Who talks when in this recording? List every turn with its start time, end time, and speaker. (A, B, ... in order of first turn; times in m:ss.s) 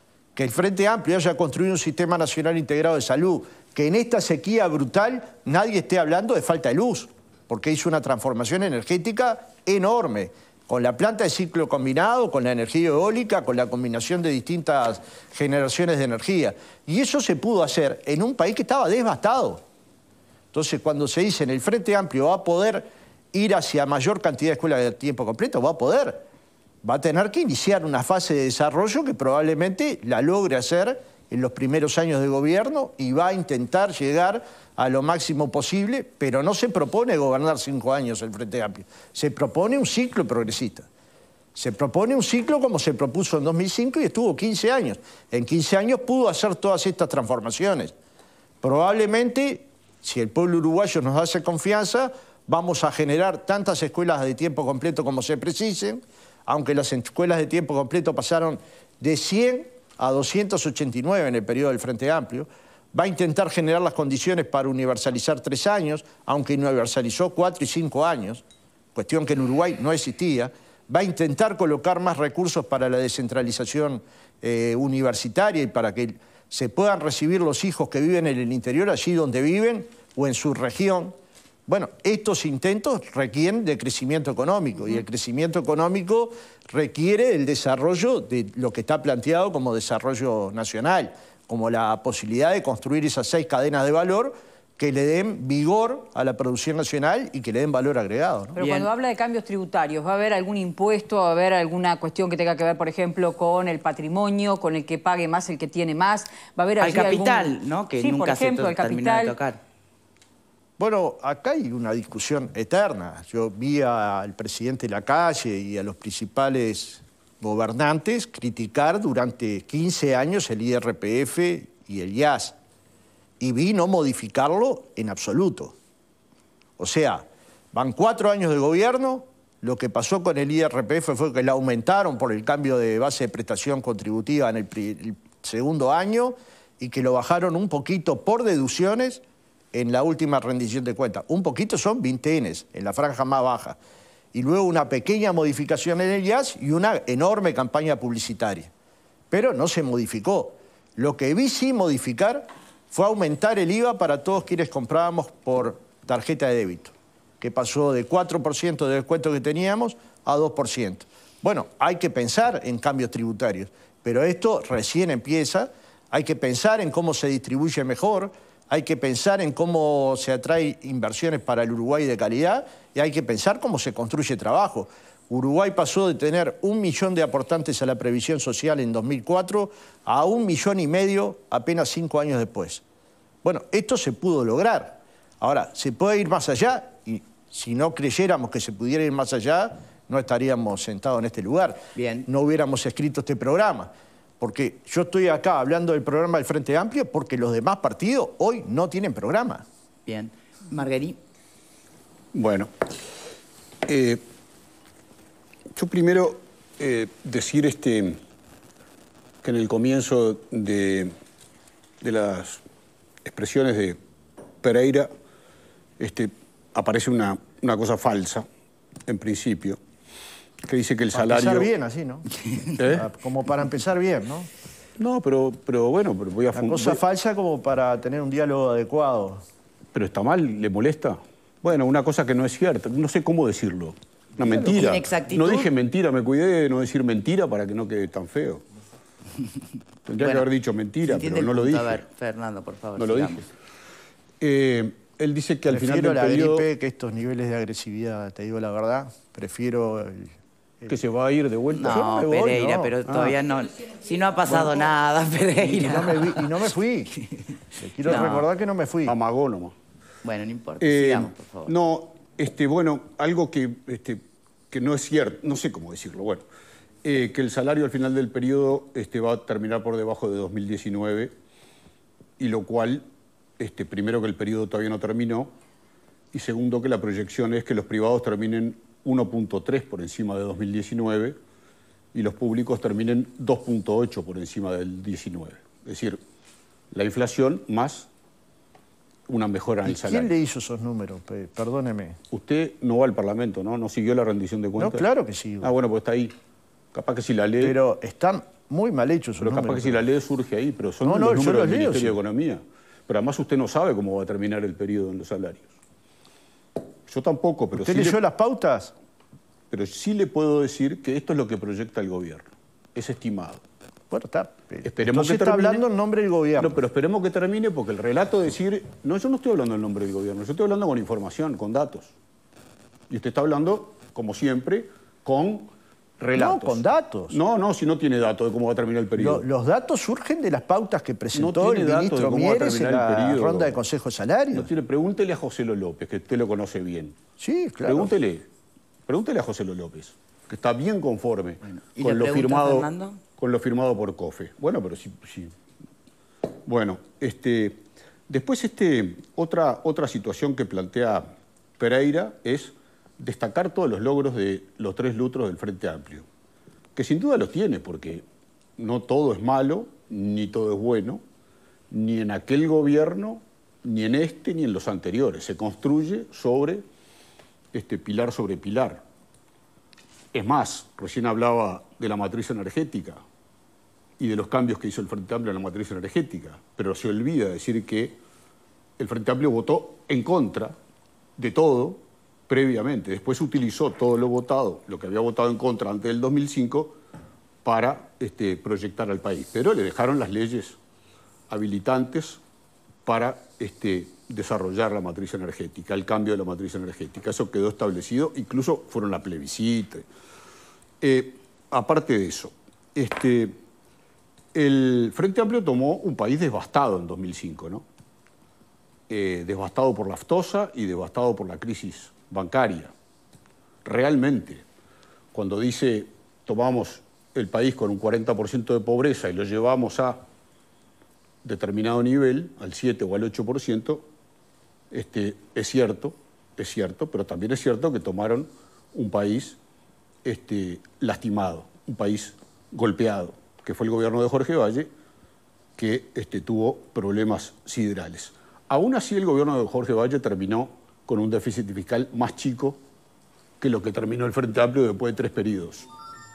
0:00.3-0:19.6 A
0:20.5-0:26.2 A
0:26.8-0:40.9 A
0:41.5-0:47.9 A
0:48.6-1:08.4 A
1:08.9-1:21.1 A
1:21.7-1:38.6 A
1:38.6-1:49.4 B
1:38.6-1:38.9 C
1:46.8-1:49.6 C
1:50.8-2:02.6 A
2:03.4-2:05.7 A
2:06.8-2:23.8 A
2:24.3-2:28.7 A
2:29.3-3:02.8 A
3:03.4-3:19.6 A
3:12.0-3:12.3 C
3:20.0-3:21.2 C
3:22.3-3:22.7 D
3:23.8-3:24.2 D
3:25.7-3:28.2 D
3:29.4-3:31.1 D
3:32.0-3:32.6 D
3:33.2-3:34.0 D
3:34.6-3:35.1 D
3:36.0-3:38.4 D
3:39.1-3:39.8 D
3:40.6-3:41.7 D
3:41.1-3:42.3 A
3:42.8-3:43.1 D
3:42.8-3:44.5 A
3:45.0-3:47.0 D
3:46.5-3:49.4 A
3:49.9-3:58.6 D
3:54.4-3:55.7 C
3:54.6-3:54.9 A
4:00.0-4:02.0 D
4:00.2-4:00.4 C
4:01.0-4:03.4 C
4:03.0-4:03.5 D
4:04.4-4:06.7 D
4:05.7-4:10.9 A
4:10.9-4:12.2 D
4:11.7-4:16.5 C
4:11.8-4:12.9 A
4:13.1-4:13.4 D
4:15.6-4:17.1 A
4:17.2-4:17.5 C
4:17.8-4:19.2 A
4:18.0-4:18.4 C
4:18.1-4:18.4 D
4:19.0-4:19.7 D
4:20.2-4:21.7 C
4:20.8-4:26.4 D
4:27.0-4:31.3 D
4:32.4-4:33.0 D
4:33.6-4:35.5 D
4:36.3-4:41.4 D
4:42.1-4:46.2 D
4:46.9-4:48.1 D
4:49.3-4:50.3 D
4:49.8-4:52.2 A
4:52.3-4:55.1 D
4:54.8-4:55.7 A
4:55.6-4:56.3 D
4:56.9-4:57.8 D
4:57.6-5:00.0 A
4:59.4-5:05.7 D
5:01.0-5:02.2 A
5:07.1-5:08.2 D
5:07.7-5:08.9 A
5:09.7-5:13.6 D
5:14.1-5:16.8 A
5:14.8-5:15.8 D
5:16.6-5:22.1 D
5:23.1-5:29.4 D
5:26.3-5:27.4 A
5:29.2-5:34.7 A
5:31.3-5:33.8 D
5:34.5-5:37.2 D
5:37.4-5:38.1 A
5:37.8-5:38.4 D
5:39.1-5:45.5 D
5:41.7-5:43.2 C
5:46.6-5:51.3 D
5:51.8-5:56.2 D
5:56.9-5:58.2 D
5:58.8-6:01.2 D
6:01.9-6:06.8 D
6:07.7-6:09.0 D
6:10.3-6:13.2 D
6:14.2-6:18.2 D
6:19.0-6:20.7 D
6:21.4-6:27.0 D
6:27.6-6:30.8 D
6:31.5-6:32.4 D
6:33.0-6:40.1 D
6:41.0-6:43.5 D
6:44.5-6:47.8 D
6:49.1-6:52.9 D
6:53.8-6:54.6 D
6:55.3-7:00.2 D
7:01.4-7:04.0 D
7:04.9-7:09.6 D
7:10.2-7:14.9 D
7:15.8-7:22.8 D
7:23.6-7:25.9 D